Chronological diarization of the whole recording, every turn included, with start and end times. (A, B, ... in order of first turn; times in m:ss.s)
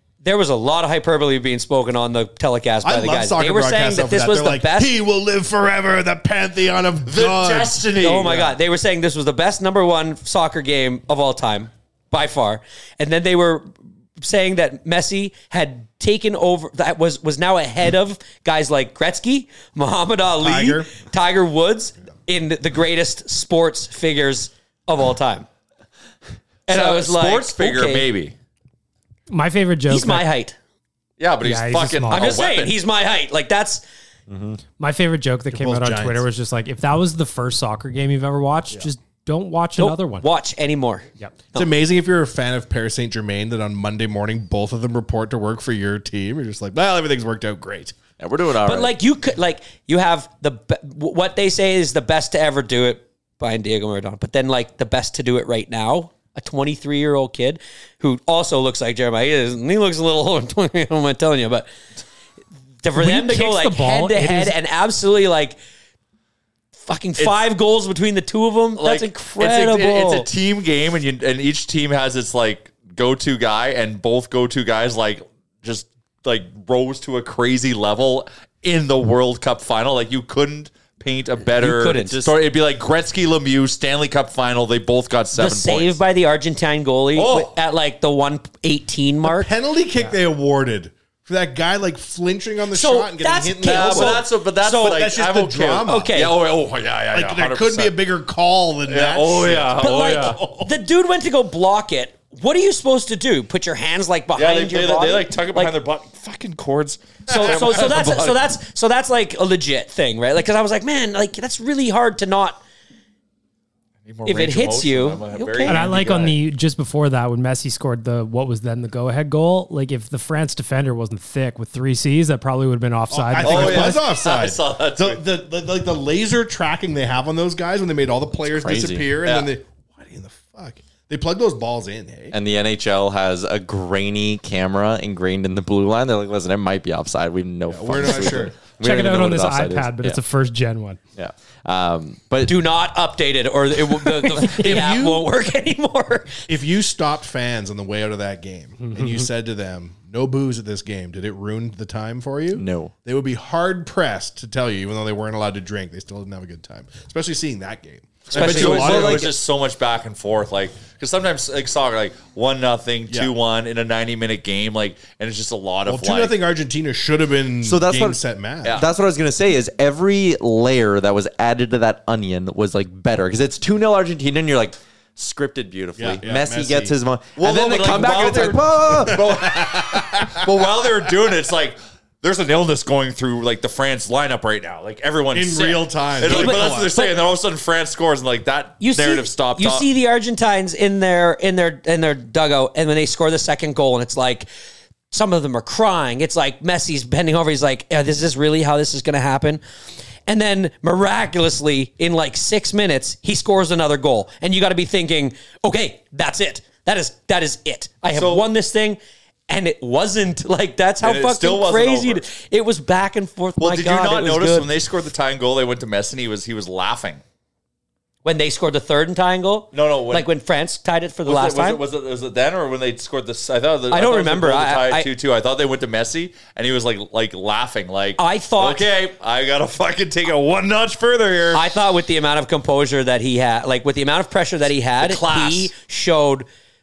0:00.2-0:04.9 A
0:02.8-0:07.9 B
0:07.0-0:08.5 C
0:08.0-0:25.5 A
0:20.4-0:20.9 B
0:26.7-0:28.1 A
0:26.7-0:28.3 C
0:29.3-0:30.3 D
0:29.9-0:30.6 A
0:31.2-0:32.8 C
0:31.4-0:32.4 D
0:32.1-0:33.8 A
0:34.3-0:34.6 E
0:34.8-0:40.3 D
0:35.5-0:36.3 B
0:39.8-0:41.7 A
0:41.5-0:47.9 B
0:48.2-0:48.9 E
0:48.6-1:01.7 A
1:02.8-1:05.6 A
1:02.9-1:04.6 D
1:06.8-1:10.3 A
1:08.8-1:26.0 C
1:21.6-1:22.2 A
1:25.3-1:29.5 A
1:27.1-1:27.5 C
1:29.2-1:36.2 B
1:32.7-1:35.0 A
1:33.6-1:38.0 C
1:35.8-1:36.3 A
1:37.1-1:39.8 B
1:38.9-1:40.4 C
1:39.8-1:45.7 A
1:44.4-1:48.4 C
1:47.3-1:47.9 B
1:47.3-1:52.6 A
1:54.0-1:56.3 C
1:54.2-1:55.8 A
1:55.6-2:04.0 D
1:55.9-1:56.3 B
2:03.1-2:12.4 B
2:03.4-2:05.2 C
2:08.5-2:09.1 E
2:09.2-2:09.5 C
2:12.3-2:20.2 E
2:17.7-2:18.6 B
2:18.8-2:21.0 D
2:21.2-2:22.6 E
2:22.4-2:26.4 A
2:24.3-2:25.2 B
2:26.5-2:39.3 B
2:28.8-2:29.3 D
2:32.5-2:32.9 E
2:38.3-2:39.4 A
2:38.3-2:46.4 C
2:43.1-2:43.3 B
2:45.8-2:48.8 B
2:47.6-2:59.2 E
2:56.0-2:57.0 B
2:57.4-3:09.9 C
2:58.8-3:01.1 B
3:05.3-3:07.0 B
3:06.2-3:07.2 A
3:08.8-3:14.5 A
3:15.1-3:19.6 A
3:20.3-3:34.7 A
3:28.1-3:28.4 C
3:31.0-3:32.2 C
3:33.6-3:37.2 C
3:38.2-3:41.8 A
3:39.7-3:40.3 C
3:41.2-3:51.7 C
3:43.9-3:45.1 A
3:48.2-3:48.9 A
3:51.5-3:56.4 A
3:55.0-3:55.7 C